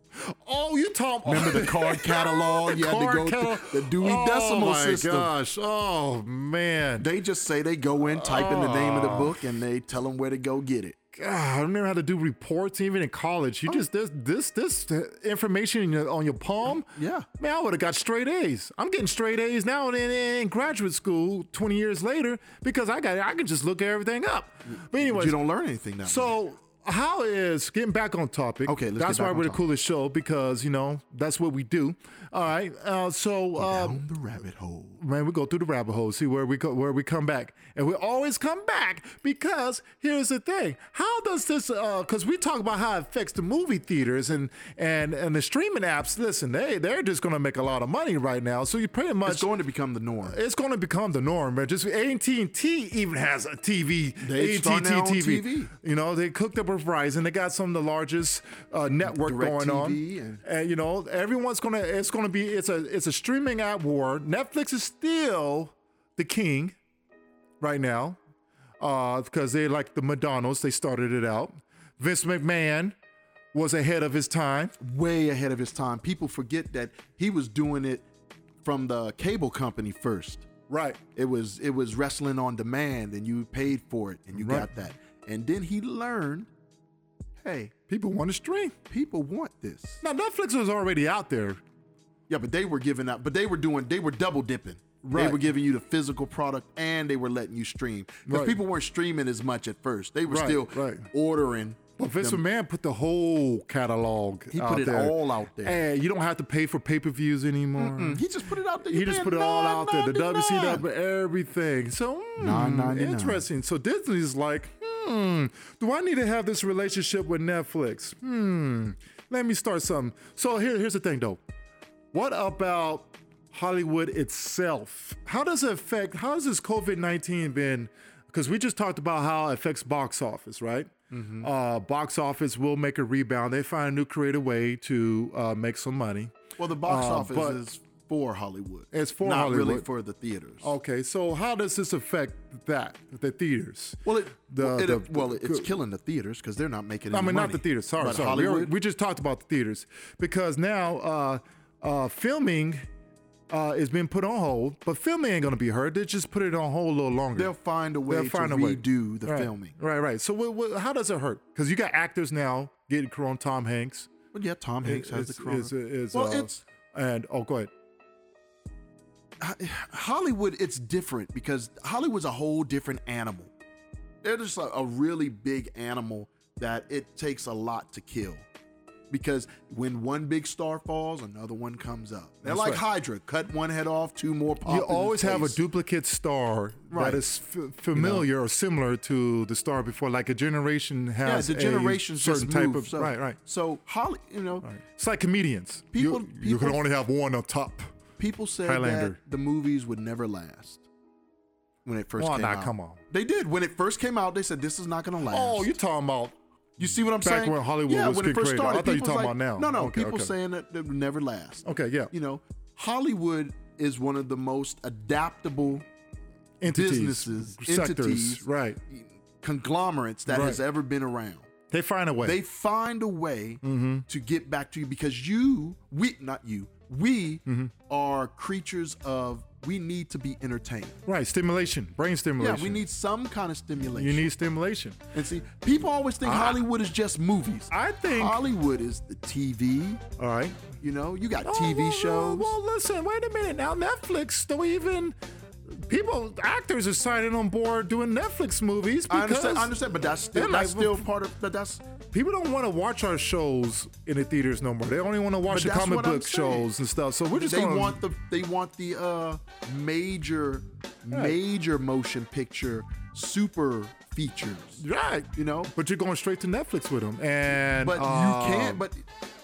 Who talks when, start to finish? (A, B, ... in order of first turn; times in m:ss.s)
0:00.2-0:07.1 A
0:01.2-0:05.3 B
0:07.0-0:11.0 B
0:08.0-0:09.4 A
0:11.1-0:25.4 A
0:16.9-0:17.3 B
0:24.7-0:26.4 B
0:26.0-0:34.0 A
0:28.7-0:29.6 B
0:33.6-0:35.0 B
0:35.0-0:49.5 A
0:49.2-0:50.4 B
0:50.2-1:06.8 A
0:54.2-0:55.7 B
0:59.0-1:00.4 B
1:07.6-1:08.2 A
1:08.8-1:13.0 A
1:13.5-1:14.8 A
1:14.8-1:18.1 B
1:18.6-1:20.5 B
1:20.7-1:21.0 A
1:21.2-1:26.5 B
1:24.3-1:24.7 A
1:27.4-1:27.7 B
1:27.9-1:28.8 A
1:28.9-1:30.0 B
1:30.0-1:31.6 A
1:32.3-1:42.4 B
1:35.0-1:35.4 A
1:38.3-1:38.6 A
1:40.3-1:41.0 A
1:42.0-1:48.2 A
1:44.5-1:45.8 B
1:47.8-1:50.8 B
1:48.8-2:01.4 A
1:52.4-1:53.4 B
2:02.1-2:17.6 A
2:11.1-2:11.5 B
2:16.6-2:20.7 B
2:18.9-2:19.9 A
2:20.6-2:25.7 A
2:24.0-2:28.7 B
2:27.1-2:32.9 A
2:33.5-2:37.5 A
2:37.4-2:39.8 B
2:38.1-2:44.1 A
2:44.3-2:46.6 B
2:44.8-2:47.7 A
2:49.4-2:53.5 B
2:54.2-2:58.5 B
2:59.1-3:05.6 B
3:02.4-3:02.8 A
3:04.6-3:13.4 A
3:06.9-3:07.2 B
3:07.9-3:08.3 B
3:11.2-3:14.7 B
3:14.6-3:17.9 A
3:15.9-3:16.8 B
3:18.2-3:20.9 B
3:18.6-3:19.2 A
3:21.8-3:25.7 B
3:22.2-3:23.0 A
3:25.3-3:26.4 A
3:26.8-3:35.8 B
3:26.9-3:30.3 A
3:31.6-3:32.1 A
3:36.6-3:38.8 A
3:36.7-3:41.5 B
3:40.3-3:40.6 A
3:41.7-3:42.4 A
3:42.2-3:51.0 B
3:43.6-3:44.1 A
3:47.5-3:47.7 A
3:51.1-3:52.8 A
3:52.4-3:54.3 B
3:53.9-3:55.0 A
3:55.1-4:00.0 B
3:56.2-3:56.6 A
3:57.7-3:58.4 A
4:00.2-4:00.7 A
4:00.8-4:02.5 B
4:01.4-4:09.7 A
4:09.1-4:11.8 B
4:10.3-4:11.1 A
4:12.1-4:18.0 A
4:15.5-4:16.7 B
4:17.3-4:25.7 B
4:21.1-4:21.4 A
4:24.8-4:28.8 A
4:27.8-4:29.0 B